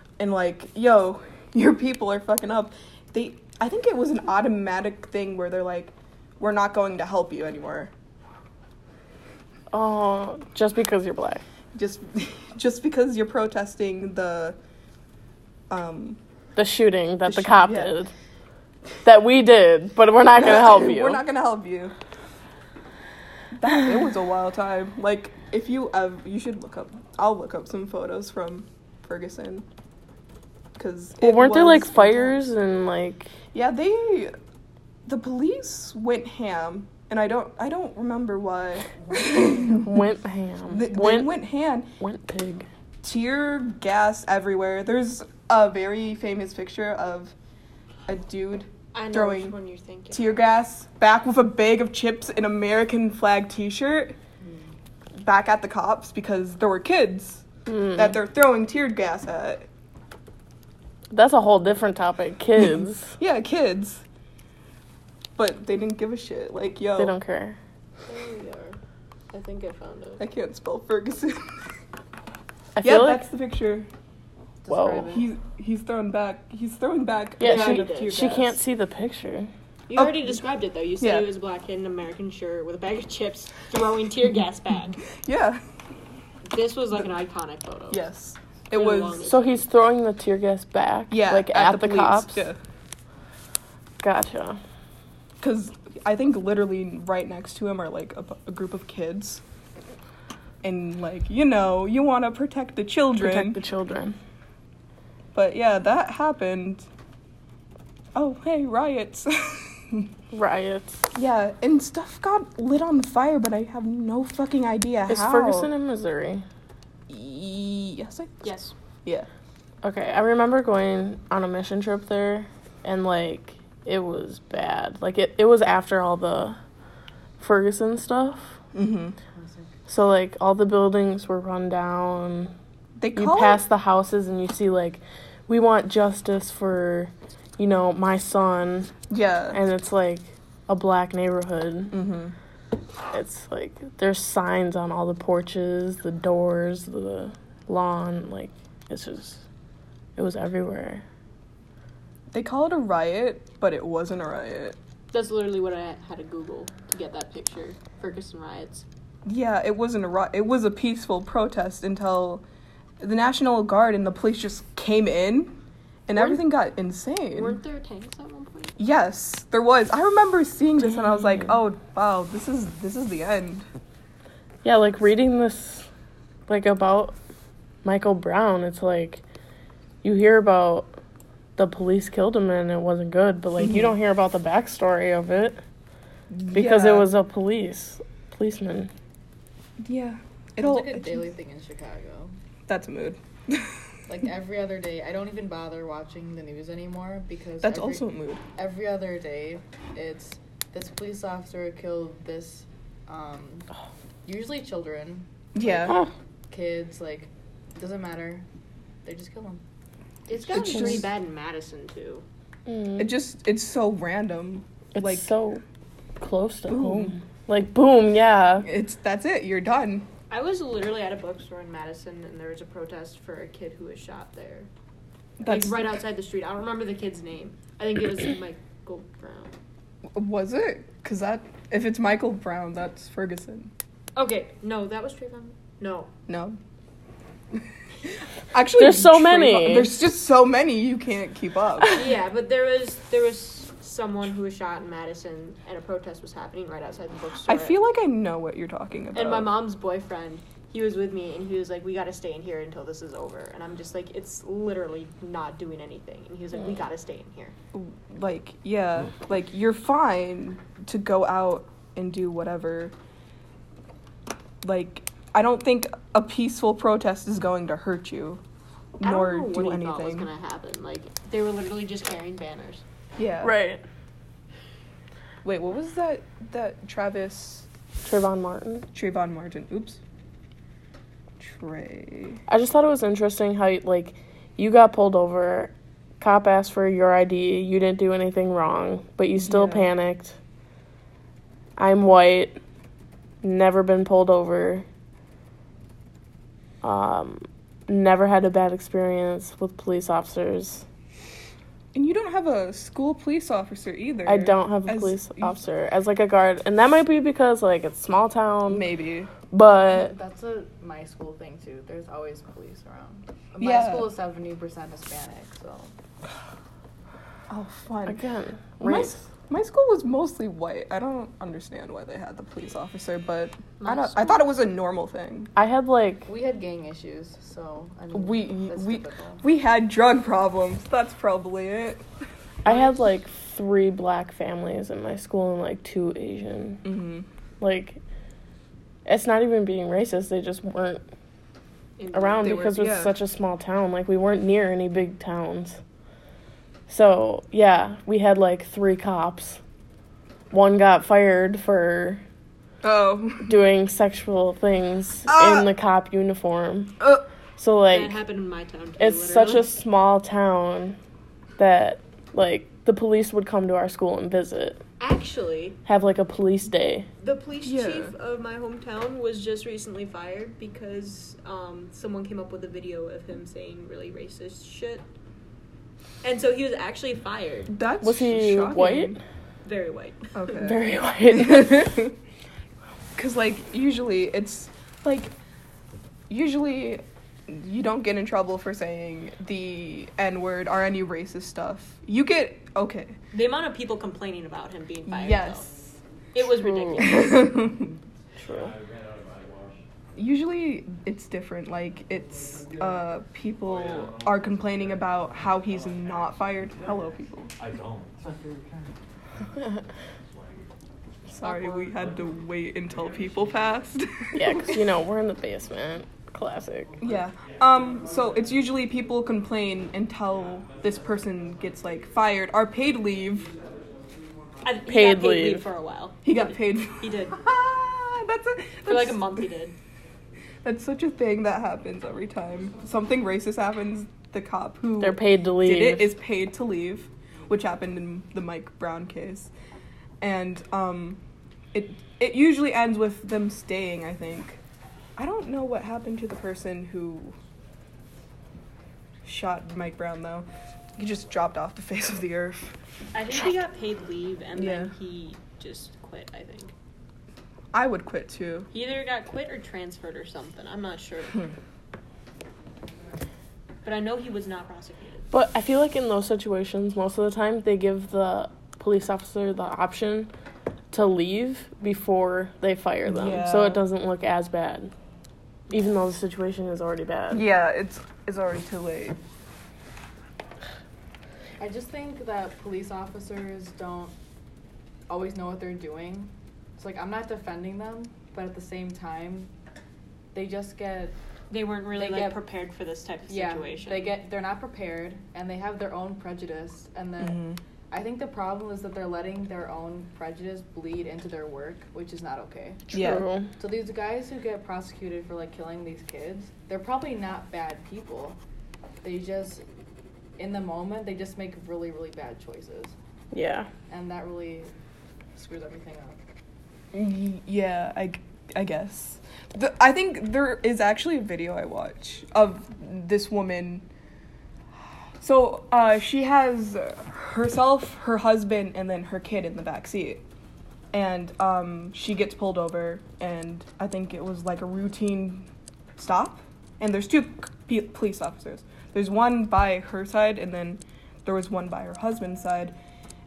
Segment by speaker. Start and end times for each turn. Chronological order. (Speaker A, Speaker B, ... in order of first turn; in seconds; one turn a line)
Speaker A: 0.2-7.9
Speaker B: 9.7-11.4
Speaker A: 11.7-14.6
Speaker A: 15.7-16.2
Speaker B: 16.6-18.1
Speaker A: 17.3-17.9
Speaker B: 19.1-21.2
Speaker A: 20.4-21.9
Speaker A: 23.6-29.6
Speaker A: 30.8-32.4
Speaker B: 31.2-33.3
Speaker A: 33.5-34.3
Speaker A: 35.1-40.0
Speaker B: 39.8-41.3
Speaker A: 40.7-41.9
Speaker B: 42.0-42.7
Speaker A: 43.0-47.3
Speaker A: 48.1-49.5
Speaker C: 48.9-50.5
Speaker A: 50.1-54.2
Speaker A: 55.2-59.7
Speaker B: 57.7-58.2
Speaker B: 61.1-63.2
Speaker A: 63.2-64.0
Speaker A: 65.4-67.2
Speaker B: 67.0-67.6
Speaker C: 68.1-68.8
Speaker C: 69.3-70.2
Speaker A: 70.2-71.5
Speaker B: 72.8-73.3
Speaker A: 72.8-73.9
Speaker D: 74.6-75.3
Speaker B: 74.7-75.1
Speaker A: 75.1-78.6
Speaker C: 77.4-78.3
Speaker B: 77.4-79.5
Speaker C: 79.9-85.0
Speaker A: 80.0-80.3
Speaker A: 81.0-81.3
Speaker A: 85.1-85.6
Speaker C: 86.5-88.0
Speaker A: 87.9-89.2
Speaker C: 88.7-89.6
Speaker B: 89.2-92.5
Speaker A: 91.1-92.6
Speaker B: 94.0-94.6
Speaker A: 95.4-99.4
Speaker A: 100.6-103.6
Speaker B: 103.2-104.2
Speaker A: 105.3-106.9
Speaker A: 108.2-110.1
Speaker B: 110.3-111.1
Speaker A: 111.1-115.7
Speaker B: 115.1-116.5
Speaker A: 117.1-118.5
Speaker C: 118.4-118.8
Speaker B: 119.8-126.6
Speaker B: 127.4-128.6
Speaker A: 128.7-129.2
Speaker D: 129.3-129.7
Speaker B: 129.9-132.5
Speaker A: 133.0-133.6
Speaker B: 133.2-138.9
Speaker A: 139.1-139.6
Speaker B: 139.5-142.0
Speaker A: 141.9-142.3
Speaker B: 143.1-149.4
Speaker B: 150.2-151.0
Speaker A: 152.3-154.8
Speaker C: 155.1-158.9
Speaker A: 159.3-162.4
Speaker A: 163.0-165.5
Speaker A: 166.1-167.6
Speaker C: 166.1-166.4
Speaker C: 167.3-168.8
Speaker A: 168.8-173.7
Speaker B: 170.8-171.6
Speaker B: 174.6-175.9
Speaker B: 176.5-177.2
Speaker B: 177.8-179.2
Speaker B: 180.0-180.9
Speaker B: 181.6-185.6
Speaker A: 183.6-183.9
Speaker A: 186.3-187.1
Speaker B: 186.5-188.9
Speaker A: 189.8-191.2
Speaker D: 190.6-192.3
Speaker A: 192.7-193.8
Speaker D: 194.1-203.7
Speaker A: 197.6-198.4
Speaker D: 204.2-205.9
Speaker A: 205.6-206.0
Speaker B: 205.8-206.1
Speaker D: 206.5-208.5
Speaker D: 209.0-209.6
Speaker C: 210.3-212.2
Speaker A: 210.3-211.1
Speaker B: 210.7-211.0
Speaker B: 212.7-213.1
Speaker A: 213.0-215.3
Speaker B: 214.9-215.6
Speaker B: 216.2-218.7
Speaker A: 216.7-217.2
Speaker A: 218.6-220.1
Speaker C: 220.3-224.7
Speaker A: 225.4-225.9
Speaker C: 225.4-229.5
Speaker A: 230.2-233.7
Speaker C: 234.2-236.1
Speaker A: 236.3-236.6
Speaker A: 238.5-242.0
Speaker B: 238.7-239.9
Speaker C: 241.9-247.8
Speaker A: 247.4-249.5
Speaker C: 249.1-257.5
Speaker A: 257.7-262.9
Speaker A: 264.6-268.4
Speaker A: 269.0-270.3
Speaker C: 269.0-272.8
Speaker A: 273.2-273.6
Speaker B: 273.4-273.8
Speaker A: 275.4-277.7
Speaker B: 278.1-278.9
Speaker A: 278.9-280.0
Speaker A: 281.4-282.4
Speaker B: 282.5-290.4
Speaker A: 289.4-289.9
Speaker B: 291.8-292.6
Speaker B: 293.4-294.9
Speaker B: 296.8-300.9
Speaker A: 301.9-305.5
Speaker B: 304.3-308.9
Speaker A: 308.7-309.3
Speaker B: 309.5-310.1
Speaker D: 309.9-315.9
Speaker A: 313.6-314.1
Speaker A: 317.5-318.2
Speaker B: 318.1-319.2
Speaker A: 318.8-325.5
Speaker C: 323.8-324.5
Speaker B: 325.6-326.3
Speaker D: 326.3-329.4
Speaker A: 328.1-332.0
Speaker B: 332.6-336.8
Speaker A: 336.8-337.3
Speaker B: 337.6-338.0
Speaker B: 339.1-341.0
Speaker C: 342.0-342.8
Speaker B: 342.1-345.8
Speaker A: 342.4-343.1
Speaker B: 346.9-349.6
Speaker B: 350.5-352.2
Speaker A: 352.8-353.5
Speaker B: 353.4-356.9
Speaker A: 355.3-355.7
Speaker A: 357.0-357.2
Speaker B: 357.6-358.2
Speaker C: 357.9-359.7
Speaker B: 359.0-361.0
Speaker B: 361.6-364.8
Speaker C: 365.0-365.8
Speaker B: 365.9-367.1
Speaker C: 367.2-375.1
Speaker A: 367.6-368.1
Speaker C: 376.2-377.8
Speaker A: 377.7-379.2
Speaker B: 378.0-379.2
Speaker C: 379.6-380.3
Speaker A: 380.3-382.1
Speaker B: 380.5-382.0
Speaker A: 383.2-385.3
Speaker A: 386.3-393.1
Speaker C: 393.3-395.7
Speaker A: 395.1-395.9
Speaker C: 396.4-397.6
Speaker B: 396.6-397.1
Speaker A: 397.0-397.9
Speaker E: 397.6-399.9
Speaker B: 398.4-398.8
Speaker A: 400.2-407.5
Speaker E: 402.1-410.7
Speaker A: 411.3-414.8
Speaker E: 411.4-414.0
Speaker C: 411.4-411.8
Speaker B: 414.4-416.9
Speaker E: 416.9-418.9
Speaker A: 417.0-423.5
Speaker E: 420.4-421.5
Speaker C: 424.6-427.4
Speaker B: 424.9-425.7
Speaker A: 426.2-429.5
Speaker C: 428.9-429.8
Speaker A: 430.6-439.5
Speaker B: 435.0-436.2
Speaker A: 440.2-441.2
Speaker A: 441.7-444.6
Speaker A: 445.2-447.4
Speaker A: 449.2-452.8
Speaker C: 453.1-456.7
Speaker A: 454.6-454.9
Speaker A: 457.7-458.7
Speaker C: 458.7-461.5
Speaker C: 463.8-465.3
Speaker B: 465.3-470.3
Speaker B: 470.9-474.9
Speaker A: 473.1-473.8
Speaker B: 475.7-477.4
Speaker A: 477.3-479.2
Speaker D: 481.6-484.1
Speaker D: 485.1-489.5
Speaker D: 490.3-491.1
Speaker C: 491.5-494.2
Speaker D: 491.9-492.4
Speaker D: 493.3-502.9
Speaker A: 497.2-497.6
Speaker B: 502.9-503.5
Speaker A: 502.9-503.3
Speaker D: 503.6-508.4
Speaker D: 509.0-509.6
Speaker D: 510.4-513.0
Speaker B: 513.3-513.7
Speaker D: 513.9-514.7
Speaker D: 515.4-516.2
Speaker A: 516.9-523.9
Speaker A: 525.2-530.2
Speaker A: 530.9-542.8